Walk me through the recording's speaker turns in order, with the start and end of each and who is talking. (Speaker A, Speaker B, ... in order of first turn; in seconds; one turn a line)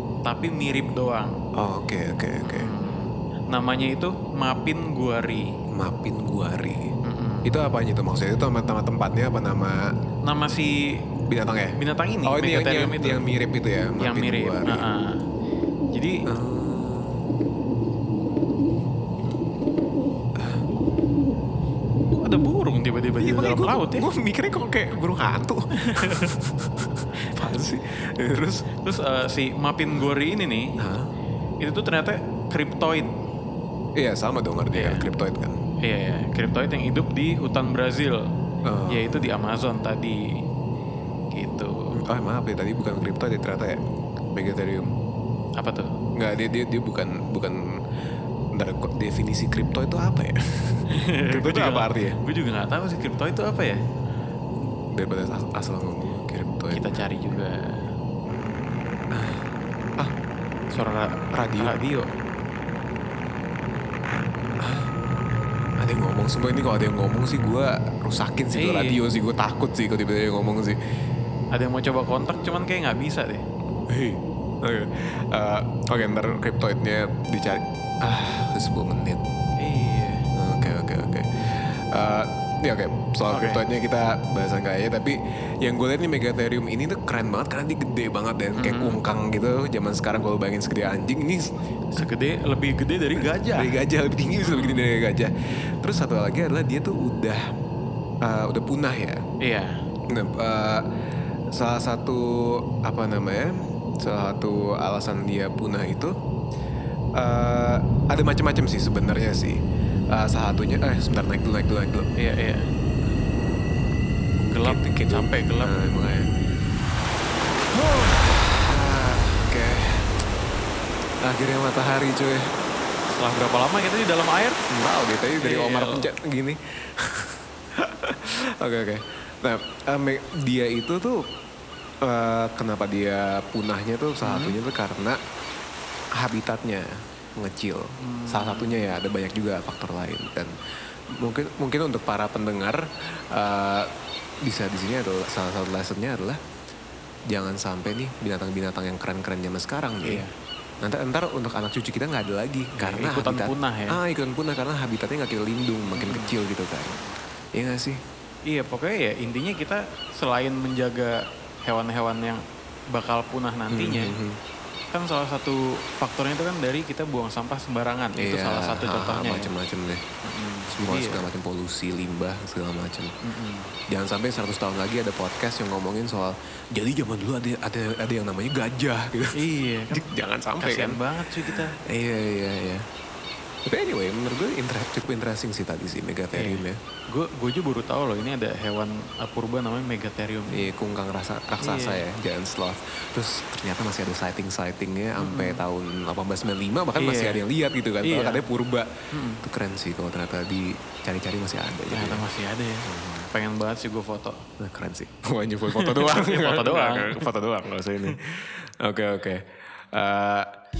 Speaker A: 0.2-1.3
Speaker B: 1.6-2.7
Speaker A: 2.4-5.5
Speaker B: 5.7-6.9
Speaker A: 7.0-7.7
Speaker B: 7.4-9.9
Speaker A: 10.2-11.0
Speaker B: 11.3-14.9
Speaker A: 11.7-13.2
Speaker A: 14.0-15.2
Speaker A: 15.9-16.3
Speaker B: 16.2-17.2
Speaker B: 20.4-20.6
Speaker A: 22.1-24.1
Speaker B: 23.2-28.7
Speaker A: 25.8-26.4
Speaker A: 28.8-30.8
Speaker B: 30.8-31.1
Speaker A: 31.6-33.1
Speaker B: 34.0-35.6
Speaker A: 34.7-35.0
Speaker A: 35.8-38.2
Speaker B: 38.6-39.3
Speaker A: 38.9-40.4
Speaker A: 41.3-42.0
Speaker B: 41.9-43.8
Speaker B: 44.3-44.9
Speaker A: 45.6-46.0
Speaker B: 46.1-47.7
Speaker B: 48.5-52.2
Speaker A: 50.9-53.8
Speaker B: 54.9-57.0
Speaker A: 56.7-57.9
Speaker B: 59.1-59.4
Speaker A: 60.7-62.1
Speaker B: 61.3-61.8
Speaker B: 64.6-64.9
Speaker B: 65.8-70.8
Speaker A: 68.5-69.0
Speaker A: 71.5-73.4
Speaker B: 73.9-79.2
Speaker A: 79.6-80.3
Speaker B: 80.3-92.0
Speaker A: 83.3-83.6
Speaker A: 88.5-89.0
Speaker A: 91.9-93.8
Speaker B: 93.2-97.5
Speaker A: 94.4-94.9
Speaker B: 98.2-99.2
Speaker A: 99.4-99.8
Speaker B: 100.1-100.9
Speaker B: 101.5-106.1
Speaker B: 107.2-109.6
Speaker B: 110.1-112.1
Speaker A: 112.2-112.7
Speaker B: 114.4-116.3
Speaker A: 114.5-115.9
Speaker B: 117.7-120.1
Speaker B: 121.2-122.5
Speaker A: 123.1-124.6
Speaker B: 124.7-131.3
Speaker A: 125.3-126.1
Speaker B: 132.0-135.2
Speaker A: 134.2-134.6
Speaker B: 136.2-140.6
Speaker A: 138.0-138.9
Speaker B: 141.1-143.9
Speaker B: 144.4-146.4
Speaker B: 147.3-150.3
Speaker A: 150.0-150.3
Speaker B: 150.8-157.0
Speaker A: 152.7-154.0
Speaker A: 155.9-156.3
Speaker B: 157.6-158.0
Speaker A: 158.5-162.4
Speaker A: 162.9-164.2
Speaker B: 163.7-164.4
Speaker A: 164.9-169.5
Speaker B: 168.2-170.0
Speaker A: 170.2-171.2
Speaker B: 170.7-173.1
Speaker A: 173.2-173.8
Speaker B: 173.9-182.8
Speaker A: 179.3-181.8
Speaker B: 183.7-186.8
Speaker A: 186.3-190.7
Speaker B: 190.5-198.9
Speaker A: 191.6-192.0
Speaker A: 195.2-195.6
Speaker A: 197.0-197.4
Speaker A: 198.0-198.4
Speaker A: 199.1-199.4
Speaker B: 199.4-202.2
Speaker A: 201.9-204.4
Speaker B: 202.8-203.3
Speaker B: 204.6-210.5
Speaker A: 205.7-207.3